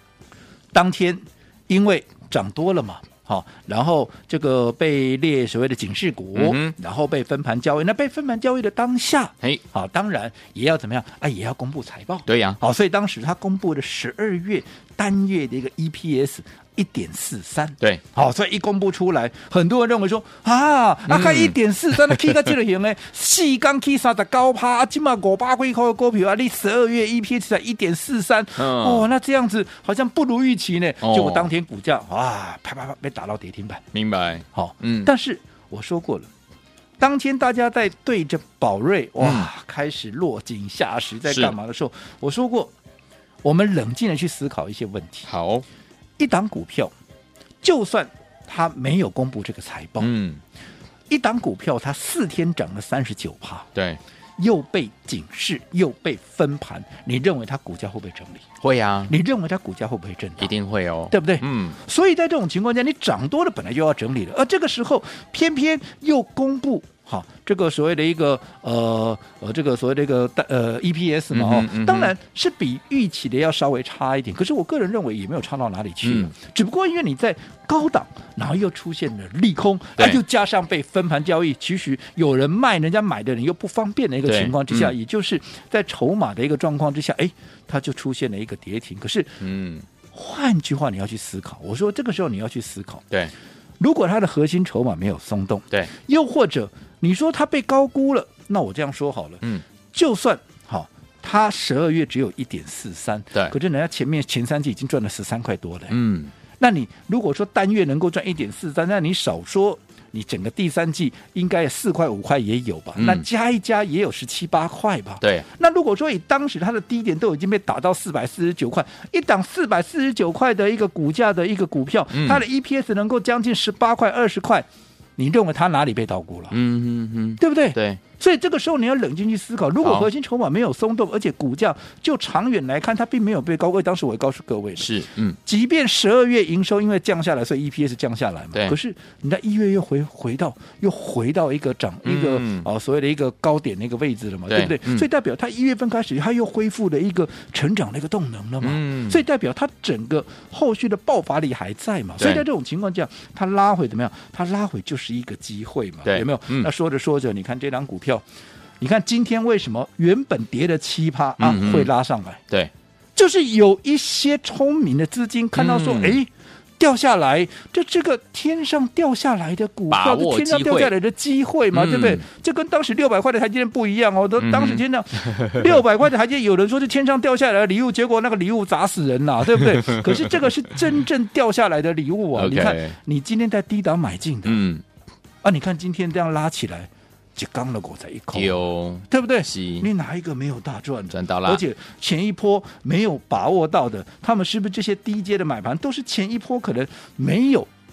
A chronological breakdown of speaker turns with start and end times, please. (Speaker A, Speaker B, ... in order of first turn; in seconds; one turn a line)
Speaker A: 0.7-33.8
Speaker B: 6.3-6.8
Speaker B: 12.3-12.6
Speaker B: 21.1-21.6
Speaker B: 22.1-22.4
Speaker B: 28.6-29.1
Speaker B: 31.0-31.5
Speaker B: 33.9-35.1
Speaker A: 34.5-36.3
Speaker A: 37.0-42.7
Speaker B: 39.2-39.5
Speaker B: 41.3-41.5
Speaker A: 43.4-45.3
Speaker B: 45.3-45.6
Speaker A: 46.2-46.9
Speaker A: 47.6-50.1
Speaker B: 50.0-50.4
Speaker A: 51.1-53.7
Speaker B: 53.8-54.0
Speaker A: 54.4-58.5
Speaker B: 58.6-59.1
Speaker A: 59.1-60.5
Speaker B: 60.4-61.8
Speaker A: 61.1-89.4
Speaker B: 71.3-72.2
Speaker B: 76.0-76.3
Speaker B: 84.3-84.9
Speaker B: 89.4-89.9
Speaker A: 90.1-93.1
Speaker A: 93.8-106.0
Speaker B: 105.9-106.3
Speaker A: 106.6-124.7
Speaker B: 113.0-113.2
Speaker B: 115.2-115.5
Speaker B: 122.1-122.5
Speaker A: 125.2-126.6
Speaker B: 126.5-128.0
Speaker A: 127.4-134.9
Speaker B: 129.8-130.1
Speaker B: 134.8-135.4
Speaker A: 135.4-158.2
Speaker B: 142.0-142.7
Speaker B: 144.5-145.1
Speaker B: 148.6-149.2
Speaker B: 152.2-152.4
Speaker B: 156.1-156.7
Speaker A: 158.8-162.4
Speaker B: 161.4-161.9
Speaker A: 163.2-184.6
Speaker B: 165.5-166.2
Speaker B: 169.9-170.9
Speaker B: 171.7-172.2
Speaker B: 174.4-175.7
Speaker B: 182.3-182.9
Speaker B: 184.4-184.8
Speaker A: 185.4-197.7
Speaker B: 188.3-189.9
Speaker B: 191.1-191.6